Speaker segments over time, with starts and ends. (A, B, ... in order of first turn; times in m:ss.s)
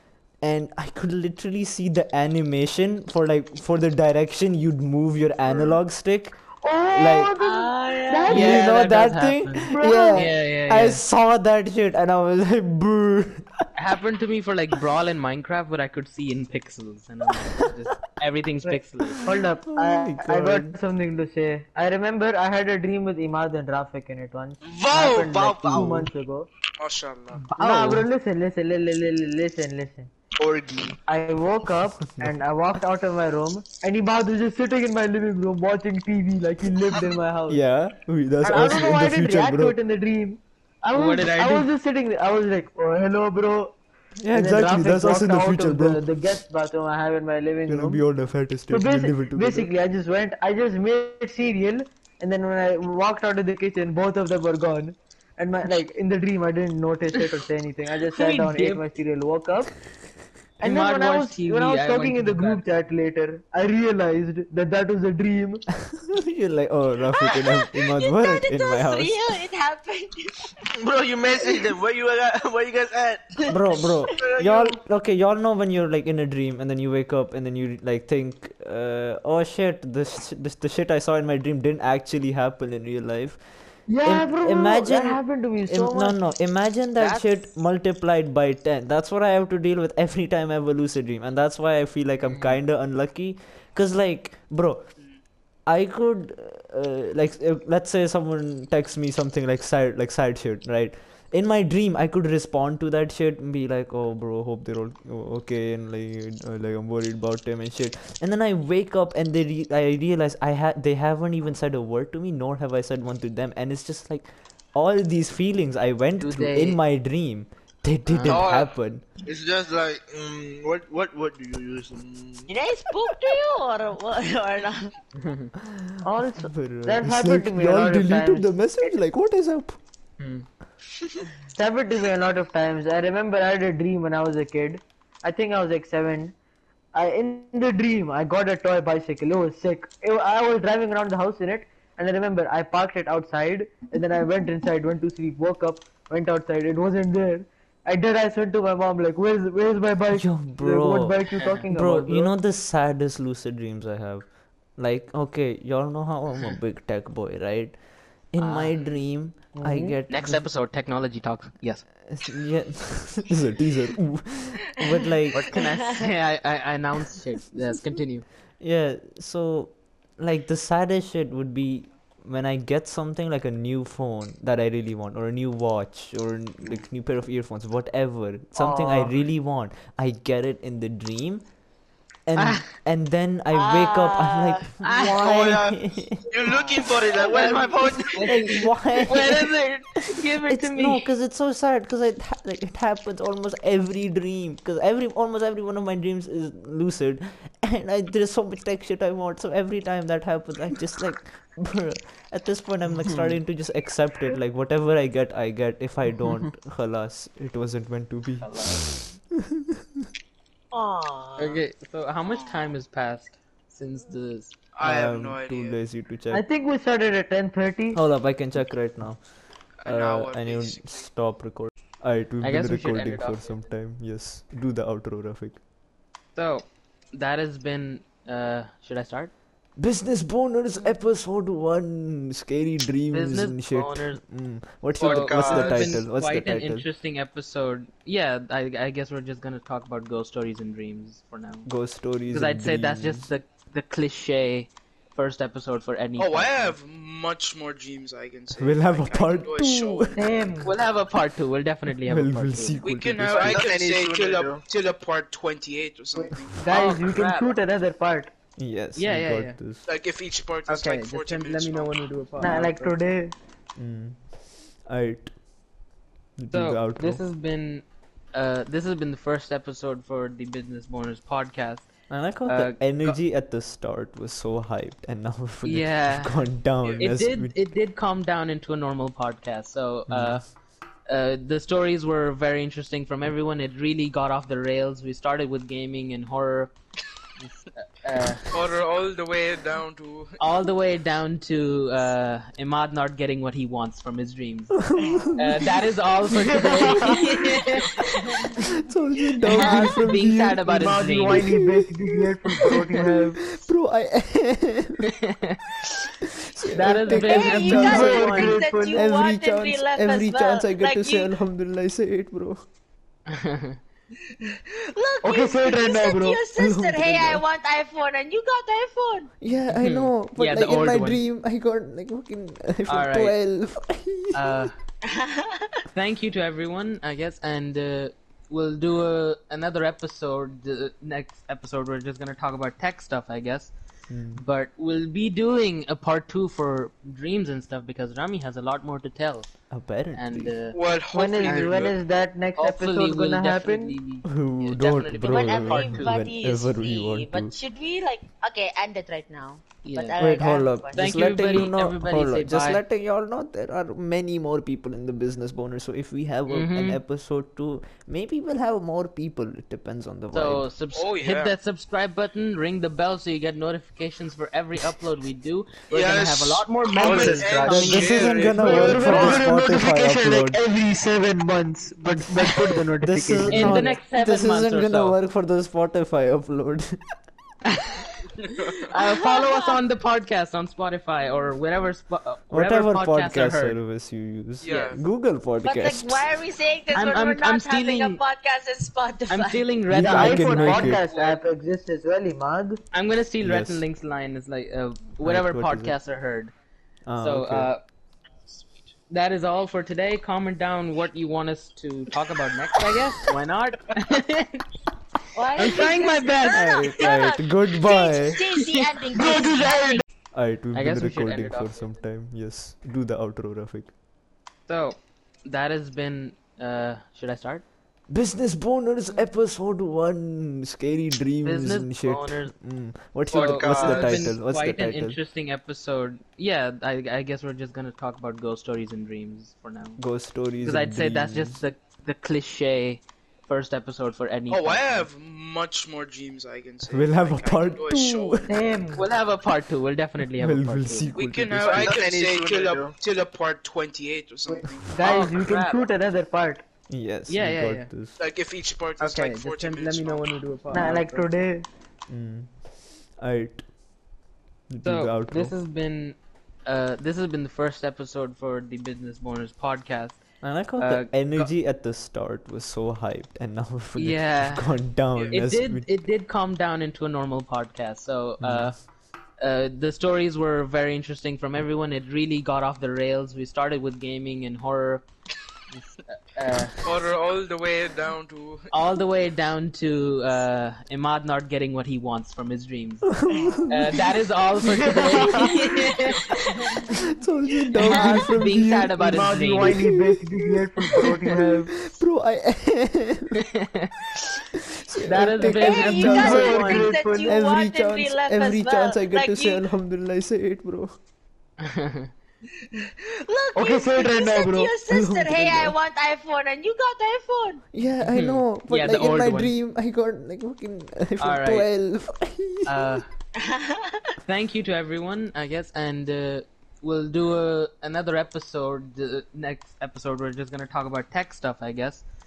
0:00.4-0:06.4 A
0:06.6-0:08.7 B
0:06.9-0:07.3 A
0:07.4-0:08.5 C
0:08.3-0:11.0 D
0:08.3-0:13.5 A
0:09.7-0:10.3 B
0:13.8-0:19.2 D
0:18.6-0:26.5 B
0:19.1-0:20.8 A
0:24.6-0:26.1 E
0:26.8-0:27.4 F
0:27.5-0:30.1 B
0:27.6-0:28.1 A
0:30.4-0:31.0 E
0:31.0-0:37.6 B
0:37.5-0:39.8 A
0:38.4-0:43.8 B
0:40.9-0:41.7 D
0:44.2-0:46.0 A
0:44.3-0:48.0 B
0:47.7-0:49.7 A
0:48.7-0:59.7 B
0:58.1-0:58.9 D
1:00.6-1:02.6 D
1:00.6-1:05.6 B
1:06.0-1:09.3 A
1:07.1-1:10.5 C
1:10.8-1:13.2 E
1:13.4-1:14.4 C
1:13.5-1:23.4 A
1:14.2-1:14.8 E
1:23.9-1:26.2 B
1:24.0-1:34.8 A
1:27.0-1:27.3 D
1:32.2-1:32.6 D
1:35.7-1:59.0 A
1:56.2-1:56.8 D
1:58.1-1:58.4 D
1:58.2-1:58.7 E
1:59.2-2:02.5 E
2:02.5-2:04.9 C
2:05.2-2:05.5 D
2:06.0-2:08.9 B
2:06.4-2:09.8 A
2:10.2-2:10.5 D
2:11.5-2:16.3 B
2:16.9-2:32.3 B
2:30.1-2:34.2 A
2:31.4-2:31.6 D
2:34.8-2:37.8 A
2:38.3-2:40.4 A
2:38.4-2:38.8 D
2:39.5-2:40.0 B
2:40.1-2:41.8 D
2:42.1-2:45.5 A
2:45.3-2:48.2 D
2:45.4-2:46.1 C
2:48.6-3:01.4 A
2:58.6-2:59.1 B
3:02.3-3:06.3 A
3:02.4-3:02.7 D
3:03.5-3:05.5 C
3:04.8-3:05.4 D
3:05.2-3:08.4 E
3:06.5-3:07.1 F
3:07.2-3:11.0 D
3:08.2-3:09.5 A
3:10.4-3:29.8 A
3:28.4-3:28.9 D
3:30.7-3:31.6 C
3:31.4-3:34.5 D
3:32.2-3:32.7 F
3:34.7-3:35.8 F
3:34.8-3:36.4 A
3:36.3-3:38.0 B
3:37.9-3:39.2 A
3:39.8-3:41.0 F
3:39.8-3:45.6 A
3:42.4-3:43.7 D
3:46.4-3:49.3 D
3:49.8-3:56.8 A
3:53.1-3:54.2 D
3:55.0-3:56.0 E
3:55.0-4:01.7 D
4:01.6-4:03.3 A
4:02.3-4:06.7 D
4:06.2-4:10.1 F
4:08.6-4:10.2 A
4:10.2-4:10.8 B
4:10.6-4:12.9 D
4:11.9-4:13.6 A
4:12.8-4:16.8 F
4:13.3-4:14.6 E
4:16.5-4:18.3 B
4:16.7-4:17.6 D
4:18.6-4:19.8 A
4:19.0-4:19.6 D
4:19.8-4:22.0 F
4:20.7-4:23.0 D
4:22.4-4:23.3 B
4:23.8-4:24.2 A
4:24.8-4:25.3 A
4:26.4-4:27.2 A
4:26.5-4:31.9 D
4:32.1-4:37.6 A
4:32.4-4:33.2 D
4:35.6-4:36.4 D
4:37.0-4:40.4 D
4:40.1-4:40.4 A
4:41.1-4:46.7 D
4:47.4-4:48.4 D
4:48.5-4:50.4 F
4:50.4-4:54.8 D
4:54.8-4:55.4 A
4:55.0-4:55.5 C
4:55.4-4:58.6 D
4:56.3-4:57.3 B
4:56.3-4:57.3 A
4:58.5-5:00.6 A
4:59.5-5:01.4 D
4:59.5-5:00.0 C
5:00.6-5:03.4 B
5:01.4-5:01.9 A
5:02.6-5:05.1 A
5:05.1-5:05.7 D
5:06.3-5:12.6 A
5:06.7-5:08.5 D
5:07.1-5:11.3 C
5:07.7-5:09.1 B
5:13.3-5:13.8 D
5:14.9-5:19.3 C
5:15.2-5:16.4 B
5:16.6-5:17.4 A
5:19.4-5:24.7 A
5:19.7-5:21.2 D
5:22.9-5:23.3 D
5:24.3-5:24.7 D
5:25.0-5:25.7 C
5:25.9-5:33.7 D
5:34.1-5:34.4 A
5:34.4-5:39.5 D
5:39.7-5:40.5 A
5:40.1-5:40.8 D
5:40.7-5:42.0 F
5:41.1-5:44.0 B
5:41.4-5:41.8 D
5:42.6-5:46.2 D
5:44.2-5:47.5 A
5:45.2-5:51.3 C
5:49.8-5:50.2 D
5:50.2-6:00.6 A
5:50.9-5:52.8 D
5:56.5-5:57.0 D
6:00.3-6:08.4 D
6:00.9-6:01.5 F
6:05.9-6:08.3 E
6:07.0-6:09.5 F
6:07.6-6:10.6 A
6:08.6-6:14.0 B
6:12.2-6:17.0 A
6:13.5-6:15.2 D
6:18.9-6:23.8 D
6:18.9-6:19.8 C
6:22.5-6:26.4 A
6:24.6-6:25.0 F
6:25.6-6:29.7 C
6:26.9-6:28.2 D
6:29.3-6:31.3 D
6:29.9-6:31.0 A
6:29.9-6:32.8 B
6:32.9-6:36.5 D
6:33.4-6:33.8 A
6:35.2-6:36.0 A
6:37.0-6:37.7 A
6:37.2-6:37.8 D
6:39.1-6:44.6 D
6:45.3-6:50.0 C
6:45.6-6:46.7 D
6:46.5-6:48.5 A
6:49.1-6:50.0 B
6:50.3-6:53.9 A
6:50.7-6:52.0 D
6:54.7-6:57.6 D
6:58.1-7:05.2 A
7:01.4-7:02.5 D
7:03.3-7:10.0 D
7:03.3-7:04.3 E
7:10.0-7:11.6 A
7:10.6-7:15.1 D
7:14.5-7:18.6 F
7:16.9-7:18.5 A
7:18.5-7:19.1 B
7:19.0-7:21.2 D
7:20.2-7:22.0 A
7:21.1-7:24.9 F
7:21.6-7:23.0 E
7:24.8-7:26.6 B
7:25.0-7:25.9 D
7:26.9-7:28.2 A
7:27.3-7:27.9 D
7:28.2-7:30.2 F
7:29.0-7:31.3 D
7:30.7-7:31.7 B
7:32.1-7:32.5 A
7:33.2-7:33.6 A
7:34.7-7:35.5 A
7:34.8-7:40.2 D
7:40.4-7:45.9 A
7:40.8-7:41.5 D
7:44.0-7:44.8 D
7:45.3-7:48.8 D
7:48.4-7:48.7 A
7:49.4-7:55.0 D
7:55.7-7:56.8 D
7:56.8-7:58.7 F
7:58.7-8:03.1 D
8:03.0-8:05.4 A
8:03.7-8:06.8 D
8:04.7-8:05.6 B
8:06.9-8:10.3 A
8:07.8-8:09.8 D
8:09.0-8:11.7 B
8:11.0-8:13.4 A
8:13.4-8:14.1 D
8:14.9-8:16.7 A
8:15.0-8:16.9 D
8:15.4-8:19.6 C
8:16.1-8:17.4 B
8:17.2-8:20.9 A
8:21.6-8:22.1 D
8:23.2-8:27.6 C
8:23.5-8:24.7 B
8:24.9-8:25.8 A
8:27.7-8:33.0 A
8:28.0-8:29.5 D
8:31.2-8:31.7 D
8:32.6-8:33.1 D
8:33.4-8:34.1 C
8:34.2-8:42.0 D